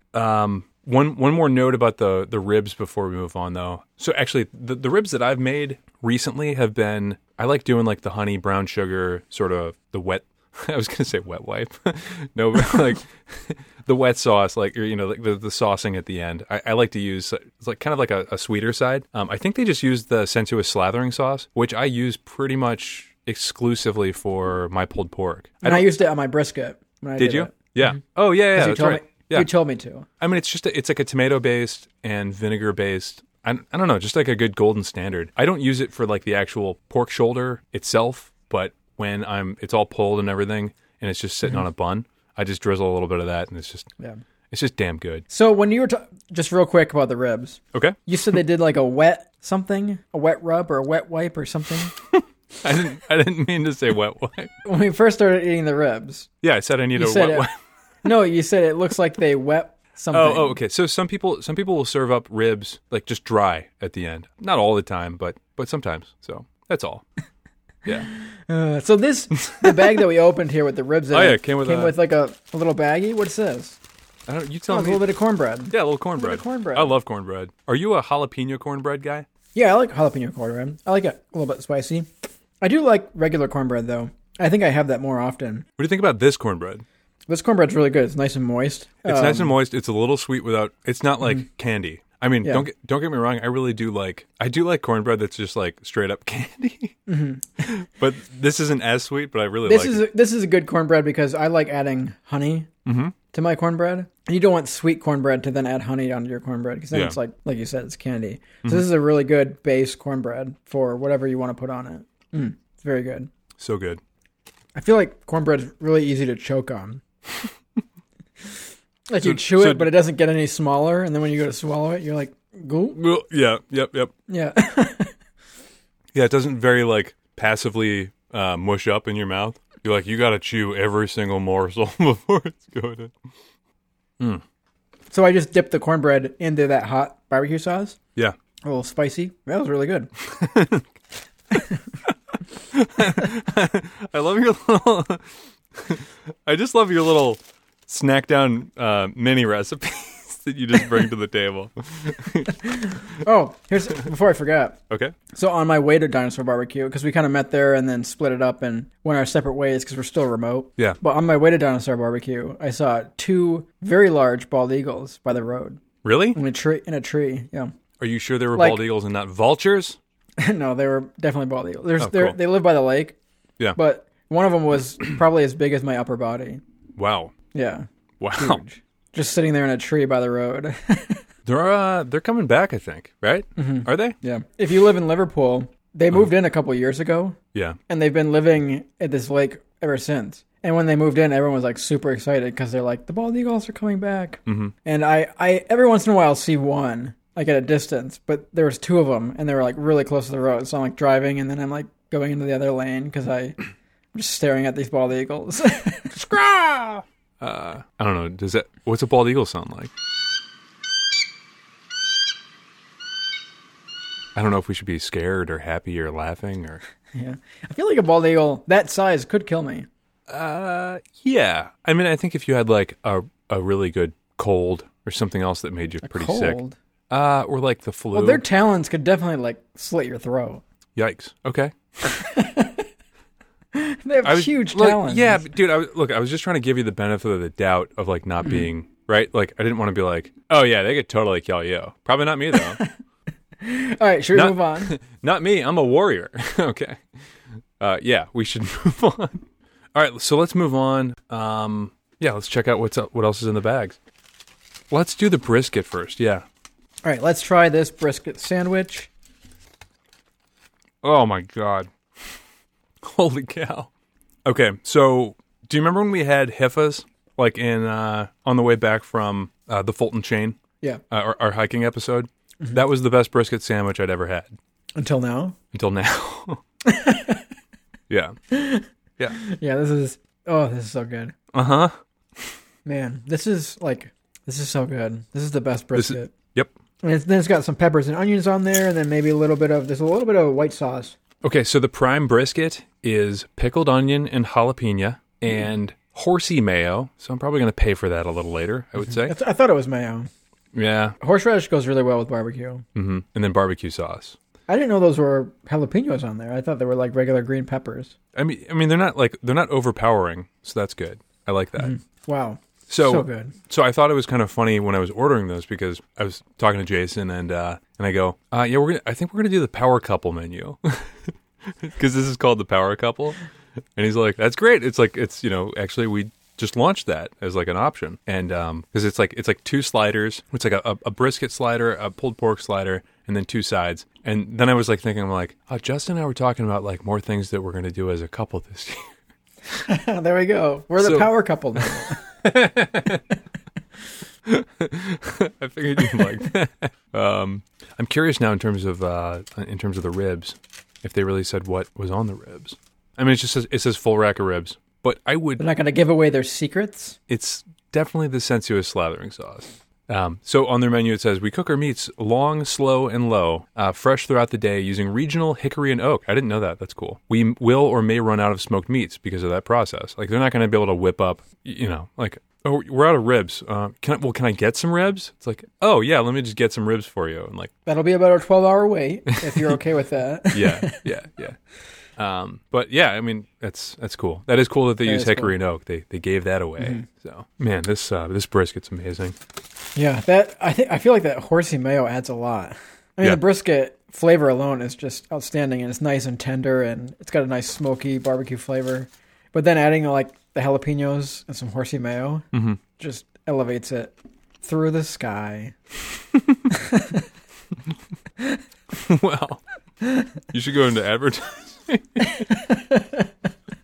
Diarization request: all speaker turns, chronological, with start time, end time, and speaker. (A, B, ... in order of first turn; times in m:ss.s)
0:00.1-0:25.9 A
0:25.6-0:27.5 B
0:27.2-0:29.5 A
0:28.5-0:30.1 B
0:30.2-0:43.9 A
0:44.5-0:45.2 A
0:45.3-0:51.9 B
0:52.1-0:54.5 A
0:54.6-0:56.3 B
0:56.4-0:57.5 A
0:56.9-0:57.5 B
0:58.0-1:00.6 B
1:00.1-1:07.0 A
1:08.0-1:13.8 B
1:09.5-1:10.0 A
1:11.1-1:12.0 A
1:14.3-1:15.1 A
1:14.7-1:16.9 B
1:15.7-1:19.2 A
1:19.5-1:22.1 B
1:22.6-1:25.6 B
1:25.8-1:26.8 A
1:27.3-1:29.6 B
1:29.0-1:37.0 A
1:37.1-1:37.7 B
1:37.6-1:40.0 A
1:39.6-1:42.7 B
1:42.8-1:43.1 A
1:43.3-1:53.3 B
1:46.9-1:47.2 A
1:53.6-1:54.0 A
1:54.7-1:57.0 B
1:59.1-2:03.0 B
1:59.2-1:59.9 A
2:02.9-2:04.1 A
2:04.3-2:05.1 B
2:06.1-2:13.2 A
2:15.1-2:18.0 B
2:18.6-2:20.1 B
2:20.2-2:20.8 A
2:22.7-2:33.0 A
2:33.0-2:34.8 B
2:34.9-2:35.1 A
2:35.3-2:45.8 B
2:46.0-2:46.4 A
2:46.3-2:47.7 B
2:48.0-2:50.0 A
2:48.5-2:48.8 B
2:50.4-2:53.2 B
2:52.0-2:52.4 A
2:53.8-2:56.6 B
2:57.0-2:57.3 A
2:57.5-3:01.2 B
2:58.2-2:58.6 A
3:01.4-3:04.2 A
3:03.6-3:07.4 B
3:07.9-3:23.6 B
3:14.4-3:14.7 A
3:24.1-3:26.2 B
3:26.1-3:29.9 A
3:34.3-3:36.8 A
3:37.1-3:39.9 B
3:40.3-3:46.6 A
3:46.0-3:46.8 B
3:47.1-3:48.4 A
3:48.1-3:50.6 B
3:51.0-3:51.7 A
3:52.0-3:52.8 B
3:53.7-3:55.5 B
3:54.2-4:02.8 A
4:03.6-4:04.9 B
4:04.3-4:07.0 A
4:07.8-4:14.0 A
4:14.9-4:16.4 A
4:17.0-4:19.1 B
4:21.0-4:22.3 A
4:23.0-4:23.9 A
4:24.4-4:30.6 A
4:31.1-4:34.5 A
4:35.0-4:35.6 B
4:35.7-4:36.6 A
4:36.8-4:37.4 B
4:38.1-4:38.4 A
4:38.5-4:41.3 B
4:41.5-4:42.5 A
4:42.8-4:46.3 B
4:45.9-4:46.7 A
4:47.0-4:51.2 B
4:51.4-4:59.3 A
4:59.1-5:00.3 B
5:00.7-5:01.2 A
5:01.2-5:02.8 B
5:02.9-5:04.4 A
5:04.7-5:08.1 B
5:08.3-5:11.9 A
5:11.8-5:13.6 B
5:12.9-5:23.4 A
5:24.0-5:39.1 A
5:39.8-5:42.2 B
5:41.0-5:43.2 A
5:44.4-5:55.6 A
5:55.6-5:57.2 B
5:57.3-6:17.7 A
6:17.8-6:21.1 B
6:20.5-6:21.6 A
6:22.2-6:29.4 A
6:25.0-6:25.5 B
6:26.8-6:27.0 B
6:29.9-6:45.7 B
6:42.5-6:42.8 A
6:46.7-6:47.2 B
6:48.9-6:49.6 A
6:50.5-6:52.5 A
6:52.5-6:53.2 B